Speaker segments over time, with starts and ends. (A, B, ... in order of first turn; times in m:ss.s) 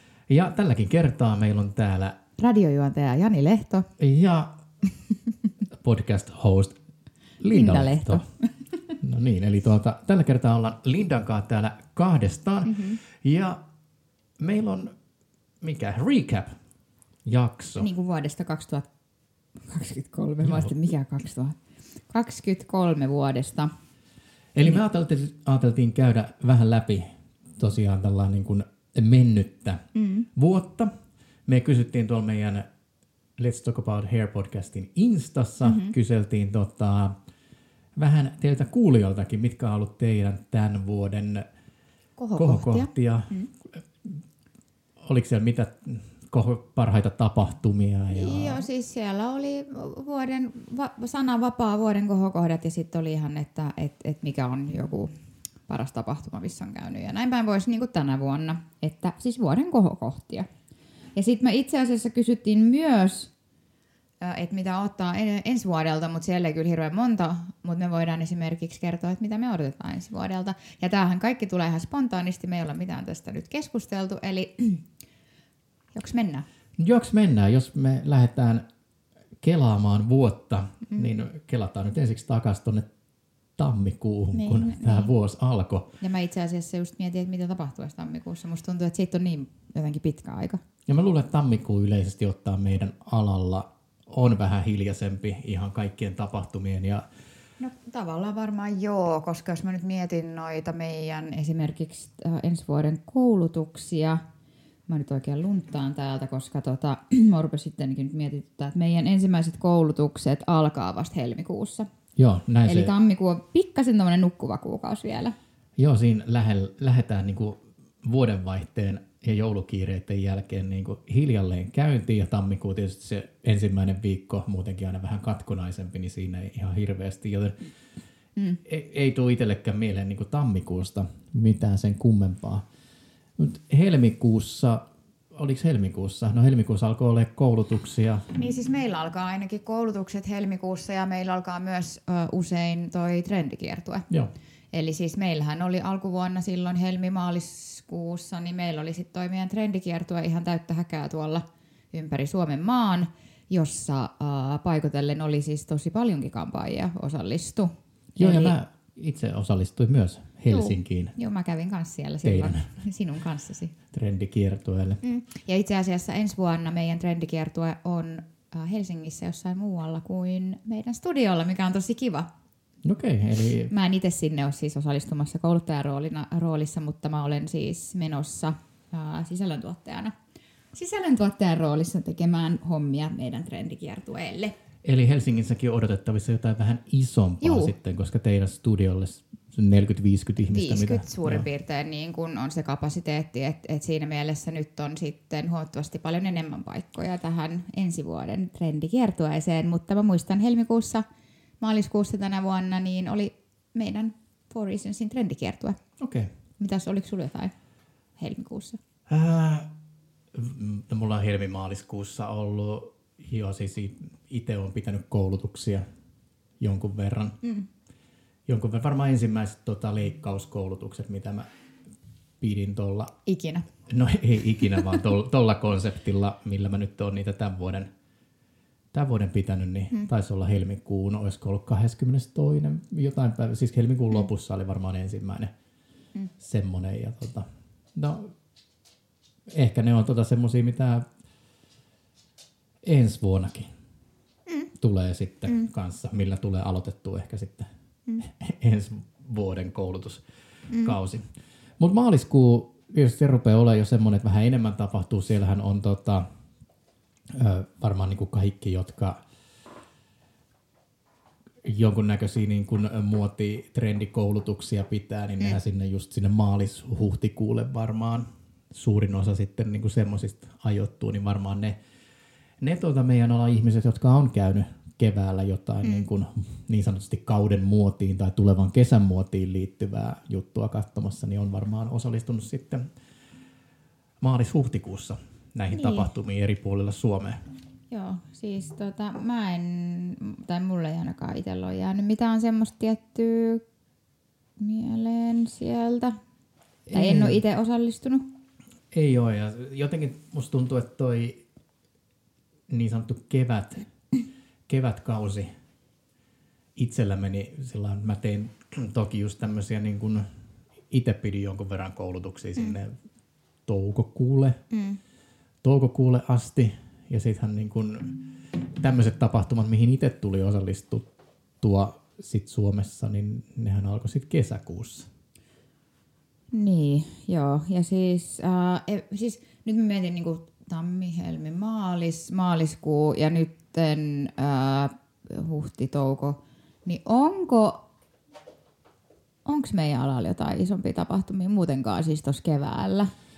0:00.3-0:02.2 A
0:02.4-0:03.9 B
0:04.0-0:04.6 A
0:05.7-0:06.8 A
0:07.4-0:08.2 A
0:07.5-0:08.5 B
0:09.0-0:13.6 A
0:12.6-0:13.0 B
0:14.4-0:14.9 A
0:15.6-0:16.6 A
0:17.2-0:17.9 A
0:17.8-0:18.9 B
0:19.6-0:21.6 B
0:20.4-0:20.7 A
0:22.1-0:23.7 B
0:24.6-0:30.9 A
0:30.0-0:30.3 B
0:31.5-0:32.7 A
0:33.4-0:37.1 A
0:35.6-0:36.0 B
0:38.0-0:41.5 A
0:42.2-0:43.5 B
0:42.4-0:44.2 A
0:45.0-0:48.7 A
0:48.1-0:55.1 B
0:55.7-1:00.5 B
1:01.2-1:03.3 B
1:04.2-1:14.9 B
1:16.0-1:16.5 B
1:16.8-1:18.6 A
1:19.4-1:22.9 A
1:23.6-1:25.9 A
1:24.3-1:25.1 B
1:26.0-1:30.6 B
1:30.9-1:37.1 A
1:37.6-1:44.2 B
1:44.9-1:51.9 B
1:52.2-1:52.9 A
1:52.6-1:55.4 B
1:55.8-2:07.6 A
2:08.6-2:12.7 A
2:13.4-2:18.3 A
2:18.4-2:24.1 B
2:24.7-2:38.6 B
2:38.2-2:41.2 A
2:40.5-2:43.7 B
2:42.2-2:42.7 A
2:43.9-2:45.0 A
2:45.0-2:52.3 B
2:52.8-2:53.7 A
2:53.7-3:00.1 B
3:00.7-3:04.6 B
3:04.8-3:11.5 A
3:07.4-3:07.7 B
3:10.4-3:21.0 B
3:21.6-3:25.8 B
3:26.0-3:26.3 A
3:26.6-3:27.5 B
3:28.2-3:28.8 B
3:29.1-3:29.7 A
3:30.3-3:35.9 A
3:36.6-3:37.4 A
3:38.5-3:41.5 A
3:42.4-3:43.1 A
3:43.3-3:43.7 B
3:43.9-3:47.9 A
3:48.9-3:55.5 A
3:56.4-3:58.3 A
3:59.5-4:01.1 A
4:02.8-4:03.7 A
4:04.8-4:07.7 A
4:08.2-4:10.2 A
4:10.7-4:11.0 B
4:10.8-4:11.2 A
4:11.8-4:16.3 A
4:17.3-4:19.2 A
4:21.6-4:31.8 A
4:32.6-4:42.9 A
4:44.2-4:47.4 A
4:45.7-4:46.1 B
4:47.9-4:53.6 B
4:54.6-4:56.2 B
4:56.9-4:57.4 A
4:56.9-4:58.3 B
4:58.9-5:01.4 A
5:02.7-5:03.9 A
5:04.7-5:05.5 A
5:06.8-5:10.3 A
5:10.9-5:13.0 A
5:13.7-5:14.6 A
5:14.7-5:15.0 B
5:15.6-5:18.2 A
5:18.8-5:21.0 A
5:21.6-5:25.1 A
5:26.5-5:37.8 B
5:39.5-5:43.1 B